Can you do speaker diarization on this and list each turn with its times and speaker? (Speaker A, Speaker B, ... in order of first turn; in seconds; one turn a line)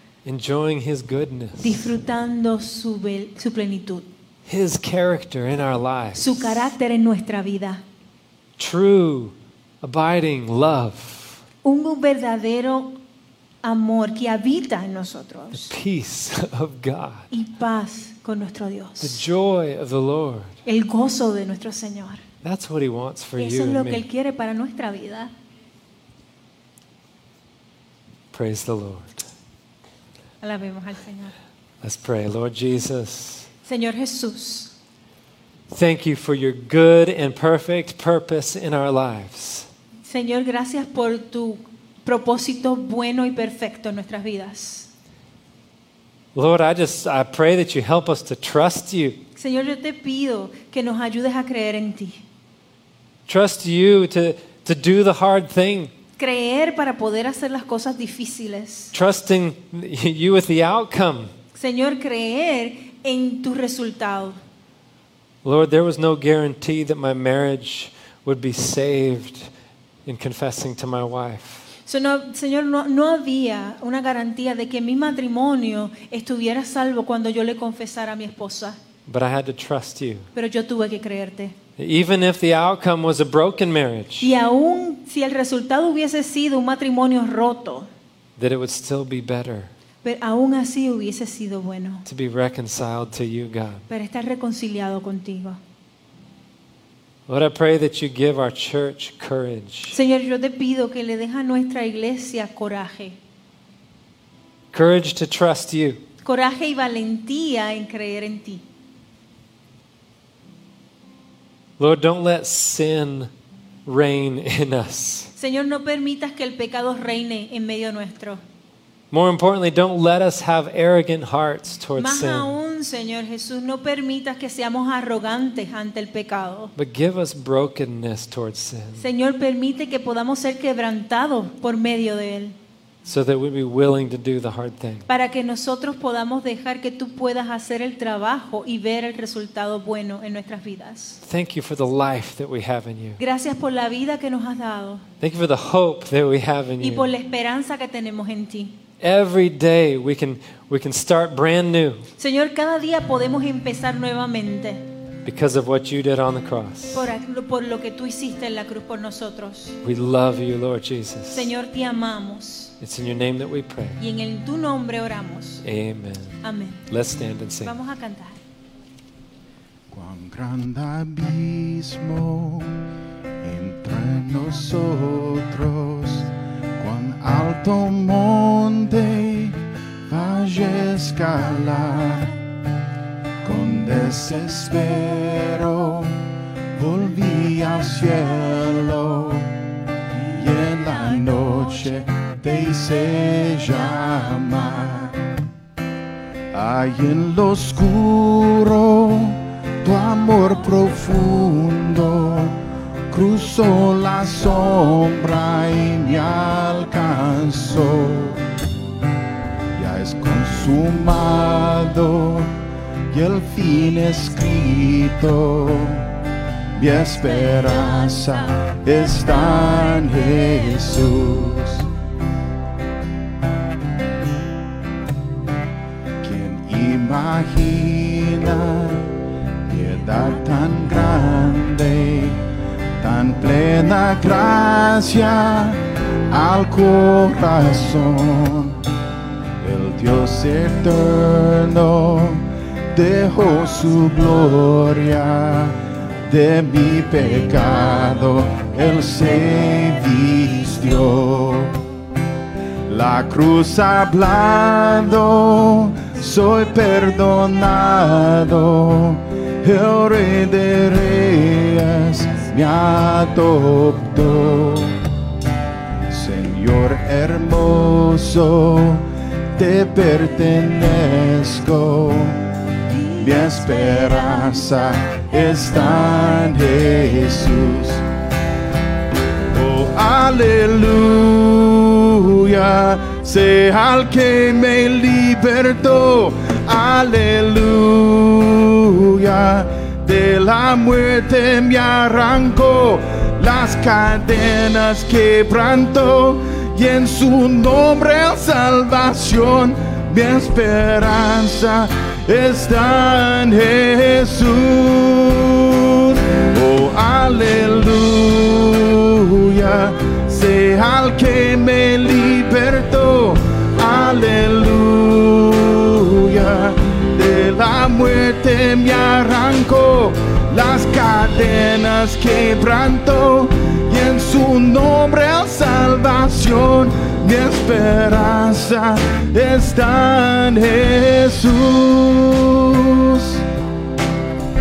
Speaker A: 0.2-1.9
Speaker B: 1.6-4.1
Speaker A: 4.5-6.7
Speaker B: 6.1-7.8
Speaker A: 8.6-11.4
Speaker B: 11.6-13.0
Speaker B: 13.6-15.7
Speaker A: 15.5-17.3
Speaker B: 17.3-19.2
Speaker A: 19.0-20.6
Speaker B: 20.6-22.2
Speaker A: 22.4-24.0
Speaker B: 23.4-25.3
Speaker A: 28.3-29.2
Speaker B: 30.4-31.3
Speaker A: 31.8-33.5
Speaker B: 33.6-34.7
Speaker A: 35.7-39.7
Speaker B: 40.0-44.9
Speaker A: 46.3-49.2
Speaker B: 49.4-52.2
Speaker A: 53.3-55.9
Speaker B: 56.2-58.9
Speaker A: 58.9-61.3
Speaker B: 61.5-64.4
Speaker A: 65.4-69.5
Speaker A: 70.0-71.7
Speaker B: 71.8-78.8
Speaker A: 79.0-80.3
Speaker B: 80.3-81.5
Speaker A: 81.8-84.3
Speaker B: 84.2-87.9
Speaker A: 88.4-89.7
Speaker B: 90.0-92.0
Speaker A: 92.0-93.8
Speaker B: 93.9-95.6
Speaker A: 97.3-100.0
Speaker B: 99.9-103.2
Speaker A: 104.7-106.0
Speaker B: 106.2-108.6
Speaker A: 111.8-113.3
Speaker A: 113.8-115.3
Speaker B: 115.3-118.4
Speaker A: 119.1-122.5
Speaker B: 122.0-126.7
Speaker A: 126.8-129.1
Speaker B: 129.0-132.6
Speaker A: 133.0-135.1
Speaker B: 135.1-141.2
Speaker A: 141.2-143.2
Speaker B: 143.2-145.1
Speaker A: 145.2-147.1
Speaker B: 146.8-148.8
Speaker A: 149.0-152.1
Speaker B: 152.2-154.8
Speaker A: 155.2-157.1
Speaker B: 156.9-159.8
Speaker A: 159.8-161.5
Speaker B: 161.3-162.7
Speaker A: 162.8-164.0
Speaker B: 164.0-165.6
Speaker A: 165.6-167.8
Speaker B: 166.4-166.8
Speaker B: 167.6-168.4
Speaker C: 169.9-172.8
Speaker C: 173.4-182.3
Speaker C: 183.4-186.2
Speaker C: 186.8-189.5
Speaker C: 190.3-195.2
Speaker C: 196.5-202.6
Speaker C: 203.1-208.4
Speaker C: 209.8-212.5
Speaker C: 213.1-216.1
Speaker C: 216.8-221.9
Speaker C: 226.2-229.1
Speaker C: 229.7-232.4
Speaker C: 233.0-238.8
Speaker C: 239.6-251.8
Speaker C: 252.9-265.0
Speaker C: 266.1-272.4
Speaker C: 273.1-278.0
Speaker C: 279.5-333.4